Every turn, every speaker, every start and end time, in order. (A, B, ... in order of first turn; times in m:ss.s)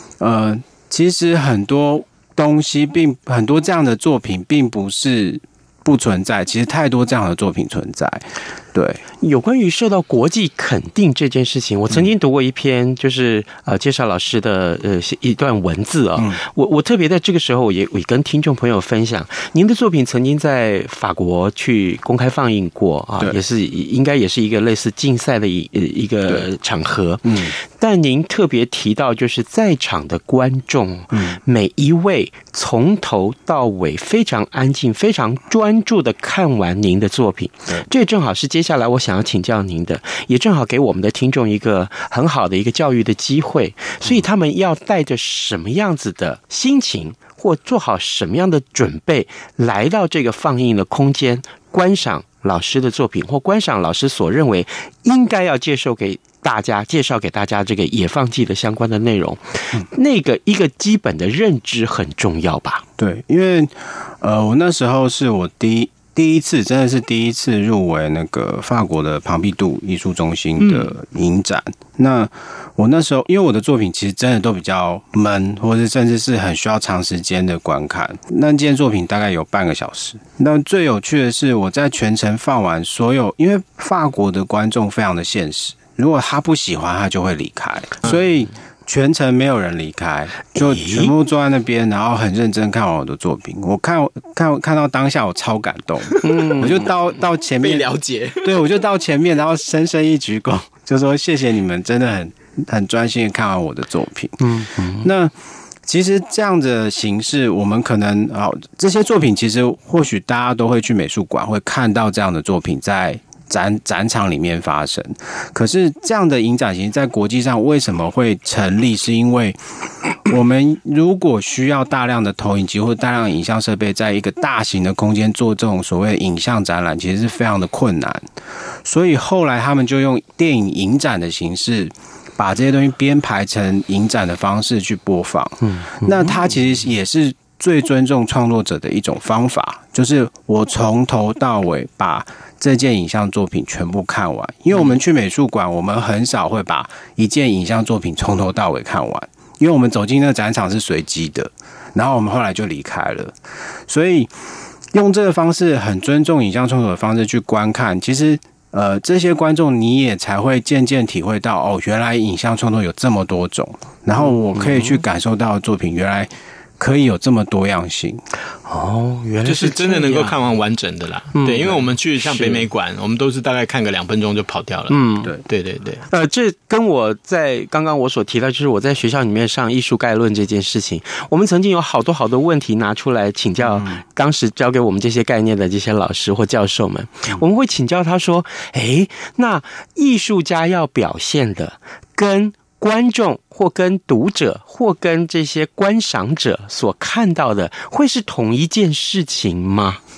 0:00.2-0:09.0 A
0:09.2-1:02.8 B
0:27.2-0:27.6 A
0:31.1-0:31.4 A
1:03.0-1:45.3 A
1:30.6-1:31.1 B
1:36.2-1:36.9 B
1:37.6-1:38.6 C
1:44.4-1:45.1 B
1:45.8-1:59.6 A
2:00.3-2:08.3 A
2:08.8-2:33.4 A
2:15.6-2:16.4 B
2:33.9-2:34.3 A
2:34.9-2:48.2 A
2:44.5-2:45.0 B
2:48.7-2:50.4 B
2:49.4-2:56.0 C
2:51.4-2:52.6 B
2:54.9-2:55.3 B
2:56.1-3:20.0 B
3:03.6-3:04.0 A